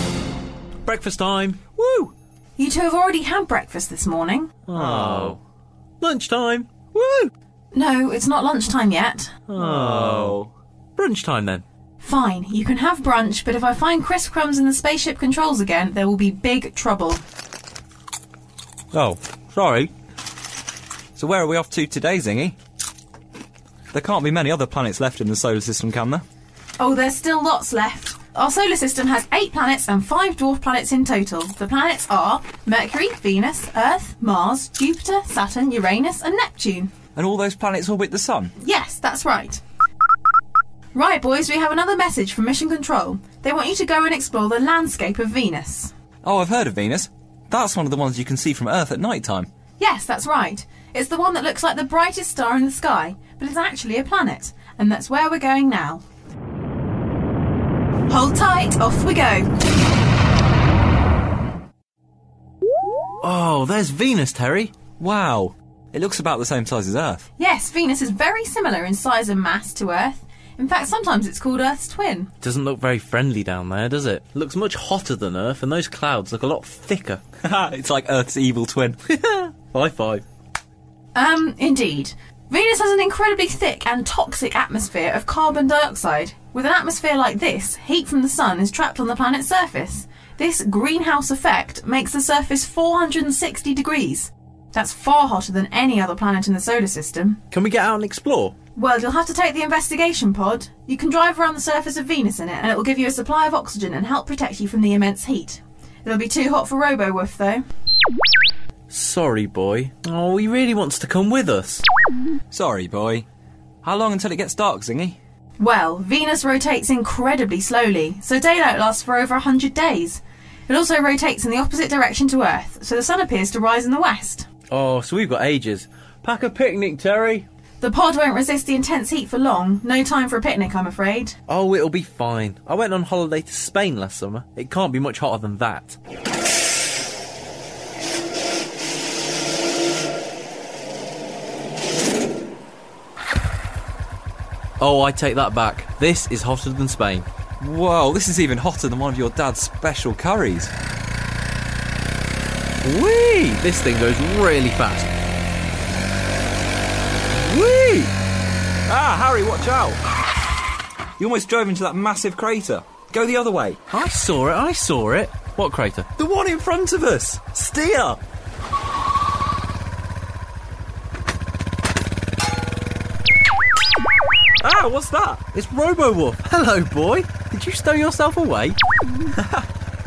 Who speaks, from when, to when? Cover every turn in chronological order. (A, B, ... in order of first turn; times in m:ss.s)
0:00.8-0:01.6 A
0:01.8-0:02.1 B
0:02.6-0:04.5 C
0:04.7-0:05.4 A
0:04.7-0:05.4 B
0:06.0-0:06.7 A
0:06.9-0:07.3 B
0:07.7-0:09.3 C
0:09.5-0:10.4 A
0:09.6-0:10.5 B
0:11.0-0:11.6 A
0:12.0-0:17.2 C
0:18.9-0:19.9 A
0:21.2-0:22.6 B
0:23.9-0:26.2 B
0:26.8-0:36.9 C
0:37.1-0:38.5 B
0:38.6-0:39.6 C
0:40.9-0:45.9 C
0:46.2-0:49.5 B
0:49.8-0:56.0 C
0:58.1-0:59.5 C
1:03.2-1:04.7 A
1:05.0-1:07.2 B
1:07.4-1:12.3 C
1:12.4-1:17.2 A
1:17.4-1:19.0 B
1:19.1-1:20.2 A
1:21.1-1:37.4 C
1:37.5-1:38.5 A
1:38.8-1:47.6 C
1:48.9-1:51.8 A
1:52.5-1:53.2 B
1:53.8-1:55.2 B
1:55.6-2:04.4 C
2:04.7-2:07.5 A
2:07.8-2:11.4 C
2:11.5-2:16.0 A
2:24.8-2:27.2 A
2:27.6-2:30.7 B
2:32.8-2:35.1 A
2:37.5-2:38.1 B
2:38.9-2:40.0 B
2:41.2-2:43.8 B
2:43.9-2:46.1 A
2:46.2-2:48.2 B
2:54.6-2:55.4 B
2:55.5-2:58.8 A
2:59.3-2:59.7 B